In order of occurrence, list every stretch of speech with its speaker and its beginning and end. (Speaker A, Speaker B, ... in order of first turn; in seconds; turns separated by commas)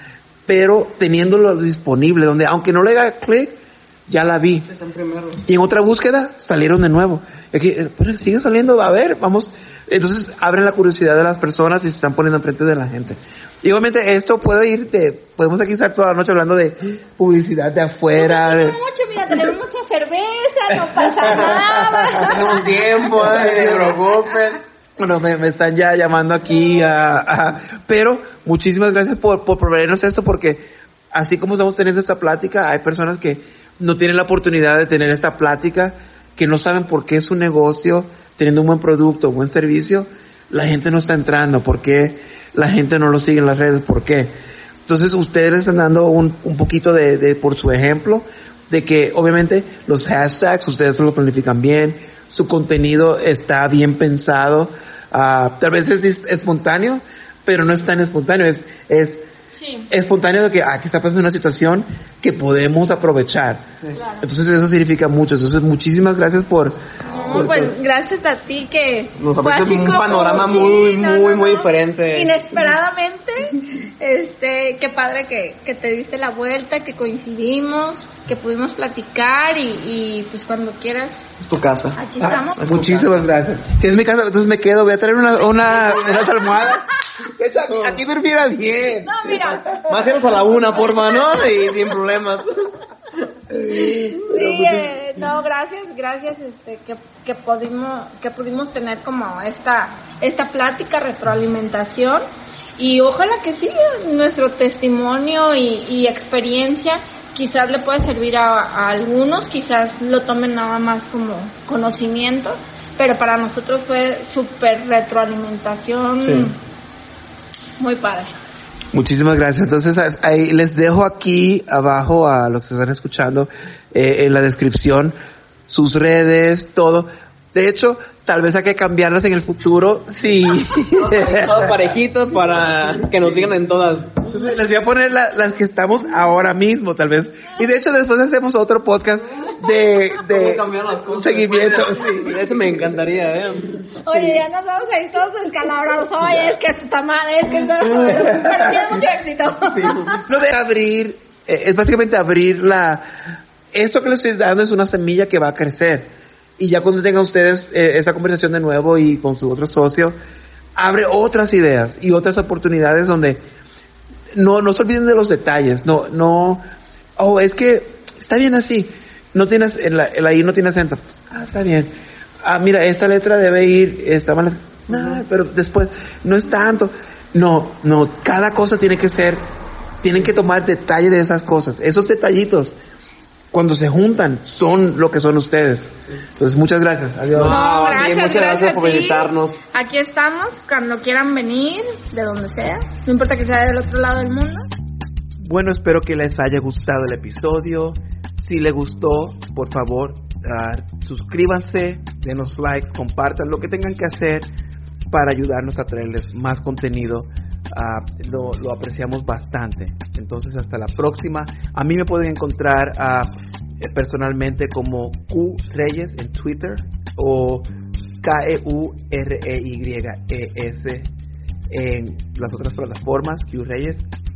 Speaker A: 0.5-4.7, Speaker B: 4.7-5.4, Speaker A: 5.4-18.8, Speaker C: 18.1-22.9, Speaker A: 20.7-22.4, Speaker B: 21.2-21.6, Speaker B: 22.2-24.6, Speaker A: 23.1-24.0, Speaker A: 25.0-44.3, Speaker A: 44.9-59.2, Speaker C: 59.5-59.9, Speaker A: 59.9-63.6, Speaker C: 63.9-64.2, Speaker A: 64.2-66.8, Speaker C: 67.1-81.3, Speaker B: 67.3-67.7, Speaker A: 67.3-67.6, Speaker B: 69.2-72.3, Speaker B: 81.4-82.0, Speaker C: 82.0-82.9, Speaker A: 82.2-90.2, Speaker B: 82.6-83.1, Speaker B: 85.8-86.3, Speaker B: 87.7-88.0, Speaker C: 89.0-89.8, Speaker B: 89.9-92.5, Speaker C: 90.8-91.9, Speaker B: 93.2-94.8, Speaker C: 93.7-102.2, Speaker C: 102.8-116.5, Speaker C: 117.8-118.3, Speaker A: 118.9-125.1, Speaker A: 125.7-131.8, Speaker B: 130.9-134.2, Speaker A: 134.2-142.8, Speaker B: 140.2-143.9, Speaker C: 144.0-150.2, Speaker A: 148.1-148.8, Speaker B: 149.7-150.2, Speaker A: 150.2-160.1, Speaker A: 160.8-163.4, Speaker A: 164.3-166.6, Speaker A: 167.2-171.9, Speaker A: 172.4-179.4, Speaker A: 180.0-182.7, Speaker A: 183.5-187.6, Speaker B: 187.3-189.6, Speaker C: 187.4-194.7, Speaker A: 195.4-204.4, Speaker A: 205.1-213.3, Speaker A: 213.8-217.7, Speaker A: 218.2-221.1, Speaker A: 221.7-224.0